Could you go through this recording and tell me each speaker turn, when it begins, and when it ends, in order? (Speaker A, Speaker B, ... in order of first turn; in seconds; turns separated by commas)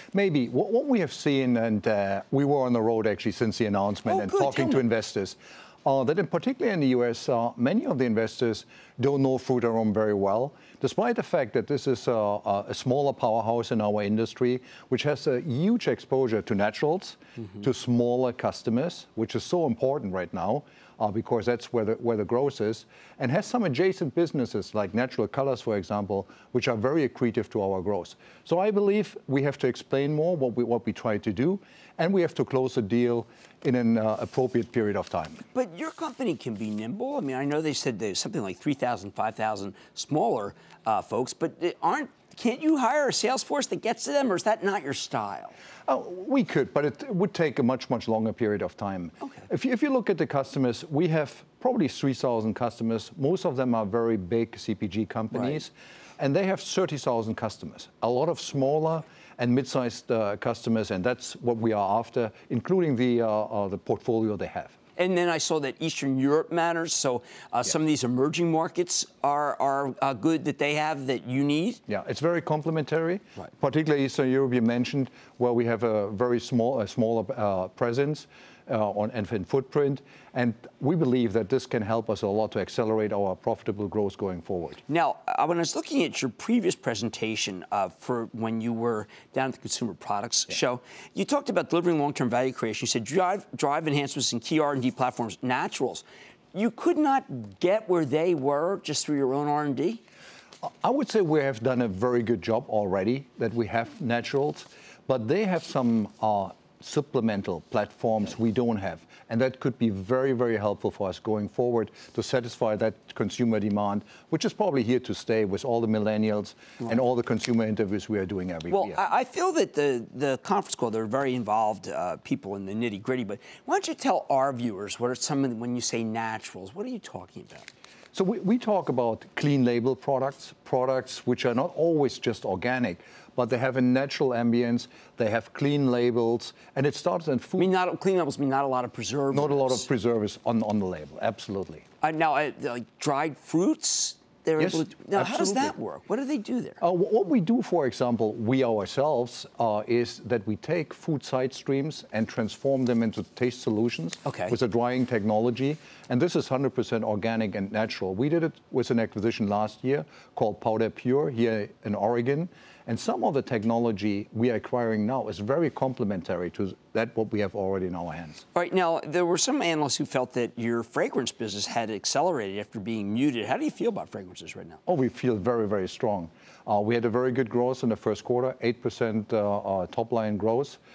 Speaker A: 0.1-35.4, Speaker B: 4.0-4.9, Speaker B: 35.5-45.5, Speaker A: 45.9-64.8, Speaker B: 55.3-55.6, Speaker B: 65.0-71.8, Speaker A: 71.9-84.8, Speaker B: 84.9-100.0, Speaker A: 100.7-119.0, Speaker B: 118.7-127.7, Speaker A: 128.1-137.7, Speaker B: 137.6-139.9, Speaker A: 139.3-141.8, Speaker B: 142.0-146.8, Speaker A: 144.6-145.7, Speaker A: 146.8-168.4, Speaker B: 154.2-154.6, Speaker B: 168.5-174.8, Speaker A: 174.9-180.8